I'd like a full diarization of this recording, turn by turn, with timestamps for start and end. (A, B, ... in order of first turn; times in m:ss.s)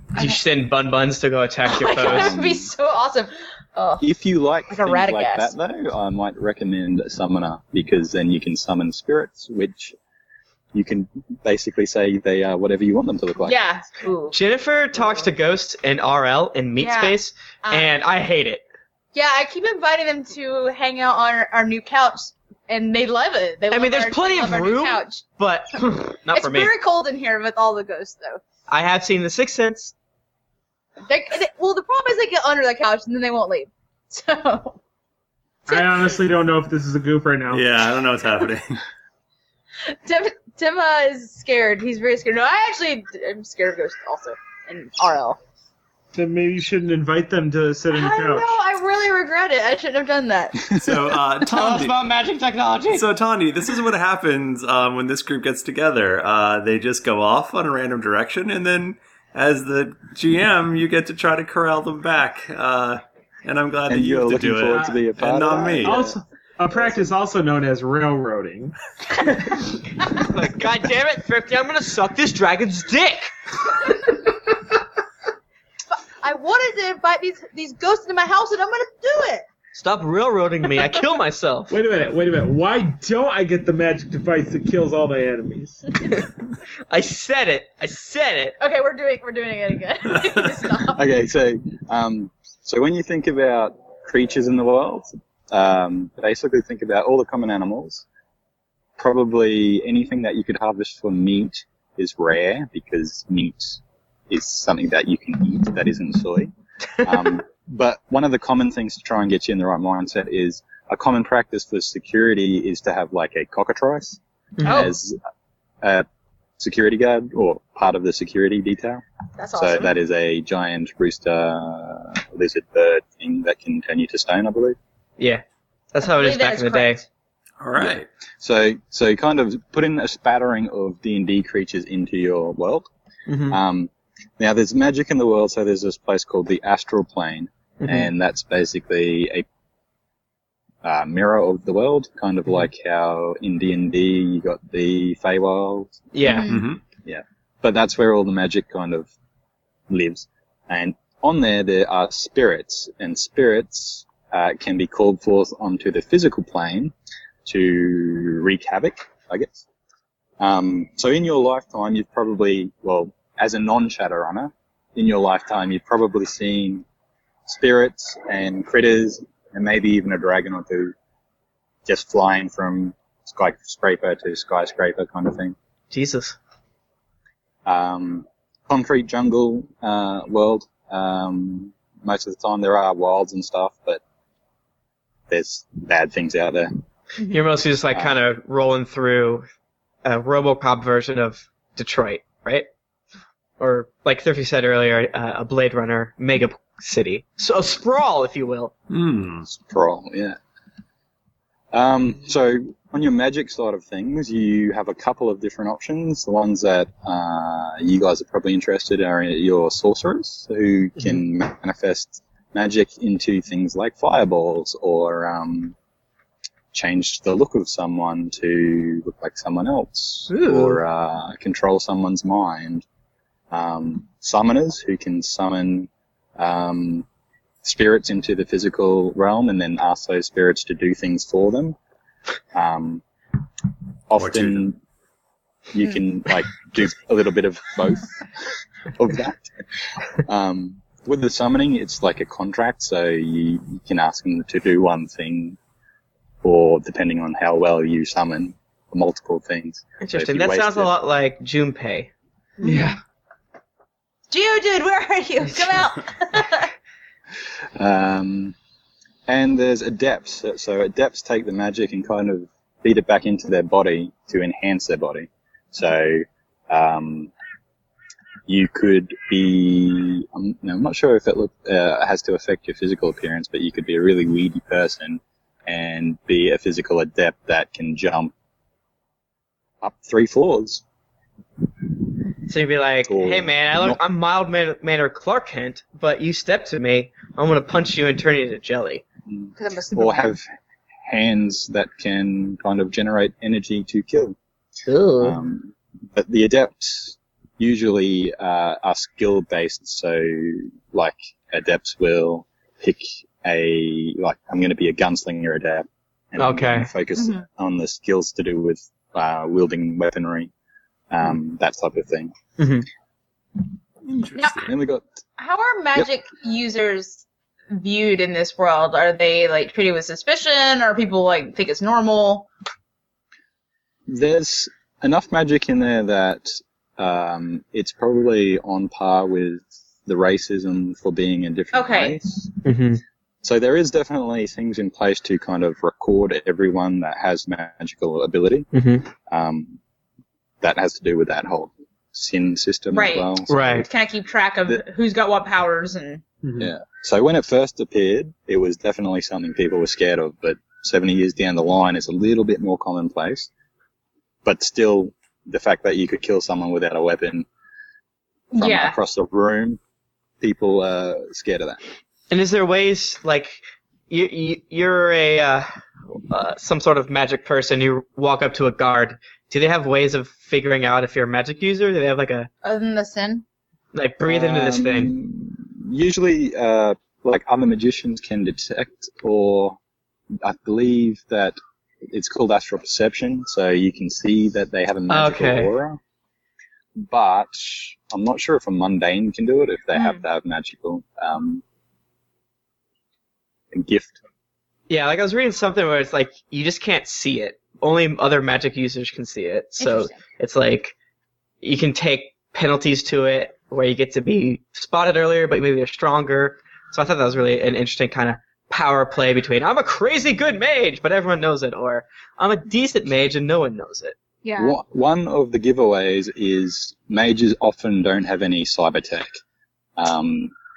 0:00.1-0:02.3 A
0:01.6-0:04.0 B
0:02.0-0:02.7 C
0:04.0-0:10.0 C
0:04.7-0:05.5 B
0:10.7-0:13.6 C
0:13.4-0:14.4 B
0:14.3-0:18.6 A
0:16.8-0:17.9 B
0:19.1-0:25.2 B
0:23.7-0:26.7 A
0:26.3-0:28.4 B
0:28.7-0:29.9 A
0:31.1-0:34.8 B
0:35.7-0:37.6 D
0:35.7-0:36.1 B
0:37.5-0:38.8 E
0:39.9-0:45.4 B
0:46.1-0:48.6 D
0:47.9-0:51.0 B
0:50.7-0:52.0 E
0:51.5-0:53.1 A
0:52.9-1:06.0 E
1:03.9-1:06.2 C
1:05.8-1:08.8 D
1:10.2-1:13.3 A
1:15.9-1:19.5 B
1:19.8-1:21.8 A
1:21.7-1:25.8 D
1:26.9-1:28.6 A
1:28.6-1:31.0 B
1:30.9-1:38.0 C
1:39.0-1:55.2 C
1:54.6-1:54.9 A
1:54.6-1:54.9 B
1:55.8-1:56.1 C
1:56.6-1:59.0 C
1:59.4-1:59.9 B
1:59.6-2:04.8 C
2:05.2-2:07.0 A
2:06.0-2:07.0 B
2:07.6-2:08.1 E
2:07.8-2:12.9 C
2:13.3-2:13.6 A
2:13.5-2:19.4 C
2:17.8-2:18.1 A
2:20.8-2:26.0 C
2:26.1-2:26.6 A
2:26.2-2:26.6 B
2:26.5-2:26.8 E
2:27.0-2:29.1 C
2:29.9-2:36.9 C
2:37.4-2:39.6 C
2:40.4-2:46.8 C
2:47.5-2:50.9 C
2:51.9-2:55.6 C
2:55.9-2:56.4 A
2:57.6-3:04.0 C
3:05.3-3:06.7 C
3:07.3-3:09.5 A
3:07.9-3:08.2 C
3:10.0-3:12.7 A
3:13.6-3:18.7 A
3:18.9-3:19.5 E
3:19.5-3:20.4 C
3:21.7-3:35.8 C
3:36.7-3:42.8 C
3:40.3-3:40.8 A
3:43.5-3:47.1 C
3:47.6-3:51.8 C
3:52.5-3:53.0 C
3:54.1-3:54.8 C
3:54.1-3:54.6 E
3:55.7-3:58.2 C
3:58.9-3:59.5 C
4:00.2-4:05.6 C
4:06.4-4:10.9 C
4:10.0-4:12.1 A
4:12.6-4:13.0 B
4:12.6-4:13.0 A
4:14.3-4:16.7 B
4:17.8-4:18.6 C
4:19.3-4:27.3 C
4:28.5-4:38.3 C
4:39.8-4:40.8 C
4:42.5-4:49.0 A
4:43.1-4:44.0 C
4:49.3-4:50.5 C
4:49.6-4:50.3 B
4:51.1-4:54.4 C
4:54.9-4:55.3 A
4:55.2-5:10.5 C
5:06.4-5:06.9 A
5:07.2-5:07.4 B
5:11.1-5:12.3 C
5:12.6-5:12.9 A
5:14.2-5:14.7 E
5:14.4-5:14.6 B
5:14.6-5:15.0 C
5:15.4-5:22.5 B
5:24.1-5:32.5 C
5:31.7-5:32.2 B
5:32.6-5:33.0 A
5:33.4-5:38.7 C
5:38.7-5:39.1 A
5:39.3-5:39.8 C
5:40.6-5:43.9 C
5:42.9-5:46.2 B
5:43.5-5:43.9 A
5:46.4-5:46.7 D
5:46.6-5:53.5 C
5:54.4-5:57.5 C
5:58.5-5:59.0 B
5:58.6-5:59.8 C
6:00.4-6:01.8 C
6:02.3-6:05.7 A
6:06.3-6:12.5 A
6:12.6-6:13.4 B
6:13.9-6:15.1 A
6:14.2-6:19.8 C
6:20.4-6:21.6 C
6:22.1-6:26.0 C
6:25.1-6:25.7 A
6:27.0-6:31.6 C
6:30.0-6:30.2 B
6:33.7-6:34.2 C
6:34.9-6:41.0 A
6:39.8-6:40.1 B
6:41.6-6:54.2 A
6:54.4-6:54.8 B
6:54.6-6:59.3 C
7:00.0-7:00.5 C